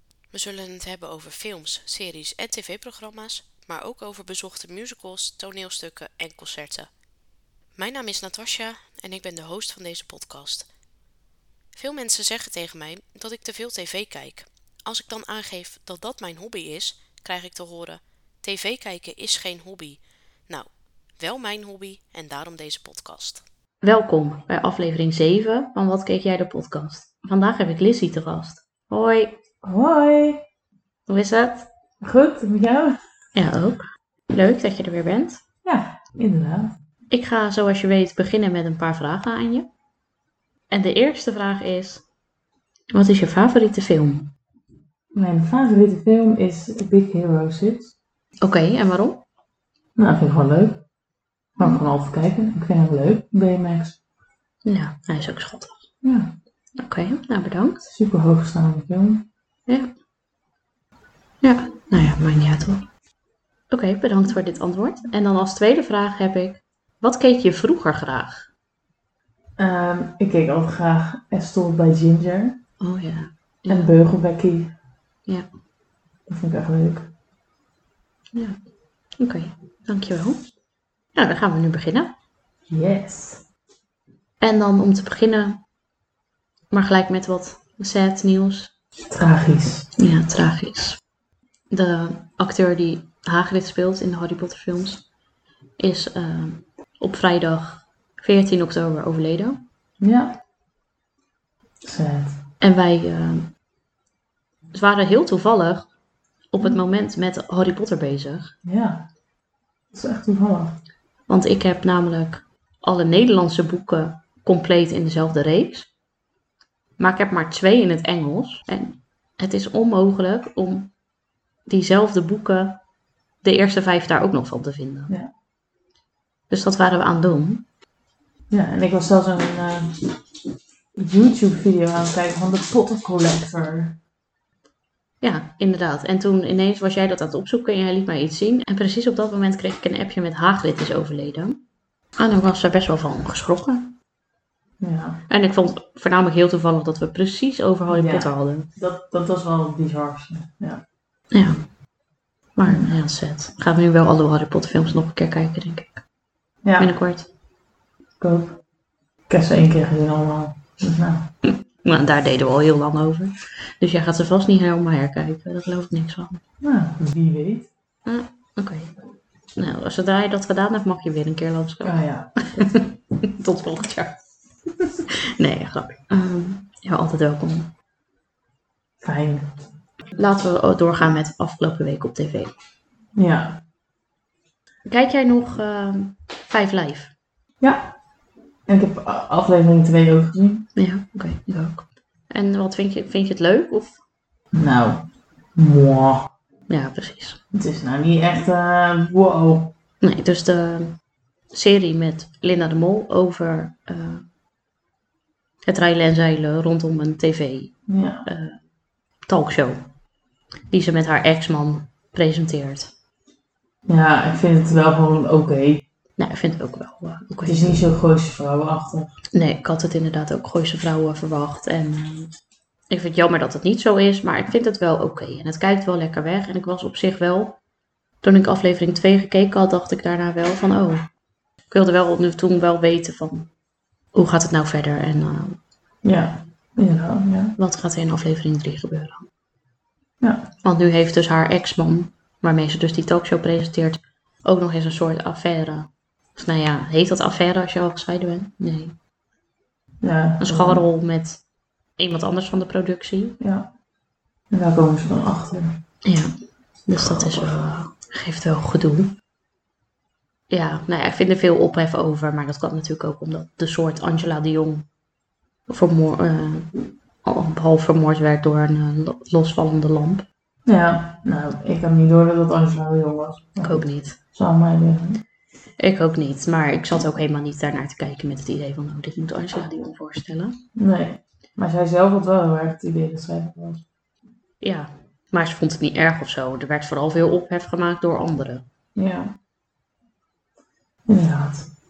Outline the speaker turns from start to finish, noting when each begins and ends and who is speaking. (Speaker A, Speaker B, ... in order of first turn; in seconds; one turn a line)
Speaker A: 0.3-6.9
Speaker A: 7.8-10.6
Speaker B: 9.9-10.3
Speaker A: 11.8-20.7
Speaker B: 11.9-12.7
Speaker B: 13.2-13.8
Speaker B: 16.8-17.7
Speaker A: 21.2-23.4
Speaker B: 23.8-29.4
Speaker C: 29.6-30.4
Speaker B: 31.1-31.7
Speaker C: 32.0-33.0
Speaker B: 33.3-35.4
Speaker C: 35.6-36.7
Speaker B: 37.1-39.7
Speaker B: 40.7-42.0
Speaker B: 42.9-44.3
Speaker C: 45.1-47.9
Speaker B: 48.4-49.2
Speaker C: 50.0-50.8
Speaker C: 51.6-54.0
Speaker B: 54.6-55.9
Speaker C: 56.0-56.3
Speaker B: 56.8-57.8
Speaker C: 57.9-59.2
Speaker B: 61.4-62.8
Speaker B: 63.7-68.5
Speaker C: 69.6-72.6
Speaker B: 72.8-73.9
Speaker C: 73.7-74.7
Speaker C: 76.3-77.1
Speaker B: 79.2-80.4
Speaker B: 81.1-82.1
Speaker C: 82.7-83.4
Speaker B: 84.4-85.6
Speaker B: 86.7-88.7
Speaker C: 89.0-89.9
Speaker B: 90.0-91.0
Speaker B: 91.7-95.0
Speaker B: 95.8-99.6
Speaker C: 100.0-100.3
Speaker C: 101.8-102.4
Speaker B: 102.6-103.5
Speaker B: 104.7-105.9
Speaker B: 106.5-108.5
Speaker C: 108.6-109.1
Speaker C: 109.9-110.8
Speaker B: 111.3-115.9
Speaker B: 117.0-120.9
Speaker B: 121.7-122.8
Speaker B: 123.4-125.1
Speaker B: 126.5-127.6
Speaker C: 128.5-130.1
Speaker C: 131.0-134.0
Speaker B: 135.2-141.6
Speaker B: 142.2-143.9
Speaker C: 144.8-145.2
Speaker B: 145.3-148.7
Speaker C: 147.9-150.8
Speaker B: 151.3-151.6
Speaker B: 152.6-156.0
Speaker C: 152.7-152.9
Speaker C: 156.6-157.0
Speaker B: 156.8-157.3
Speaker C: 158.2-158.6
Speaker C: 159.3-161.2
Speaker B: 161.4-166.4
Speaker C: 166.6-167.7
Speaker B: 168.1-168.9
Speaker B: 169.6-174.2
Speaker C: 171.8-172.7
Speaker B: 175.1-177.7
Speaker C: 179.0-179.5
Speaker B: 180.1-182.5
Speaker C: 183.2-183.6
Speaker B: 184.9-187.1
Speaker C: 187.6-187.9
Speaker C: 188.7-190.6
Speaker B: 190.8-194.0
Speaker C: 194.5-195.1
Speaker C: 195.6-196.3
Speaker B: 196.7-197.4
Speaker C: 197.5-199.7
Speaker B: 200.0-201.0
Speaker B: 201.5-204.2
Speaker B: 205.7-207.7
Speaker C: 207.9-208.2
Speaker B: 208.2-208.6
Speaker B: 209.2-209.8
Speaker B: 210.7-212.9
Speaker C: 213.9-215.8
Speaker B: 216.2-217.8
Speaker C: 217.5-219.2
Speaker B: 219.3-222.3
Speaker B: 222.9-227.6
Speaker B: 228.2-231.0
Speaker B: 231.7-233.5
Speaker B: 234.1-235.6
Speaker C: 236.0-237.5
Speaker B: 237.6-239.3
Speaker C: 240.2-240.5
Speaker B: 240.6-248.9
Speaker C: 250.0-250.8
Speaker B: 250.4-251.4
Speaker B: 252.0-253.4
Speaker C: 253.4-253.7
Speaker C: 254.5-255.8
Speaker B: 256.1-256.3
Speaker B: 256.9-259.1
Speaker C: 257.0-257.6
Speaker B: 260.5-264.9
Speaker B: 265.7-266.7
Speaker B: 267.2-270.2
Speaker C: 270.6-275.2
Speaker B: 273.6-274.2
Speaker B: 275.8-280.6
Speaker C: 280.8-283.8
Speaker B: 284.6-288.6
Speaker C: 288.9-289.4
Speaker C: 291.1-291.7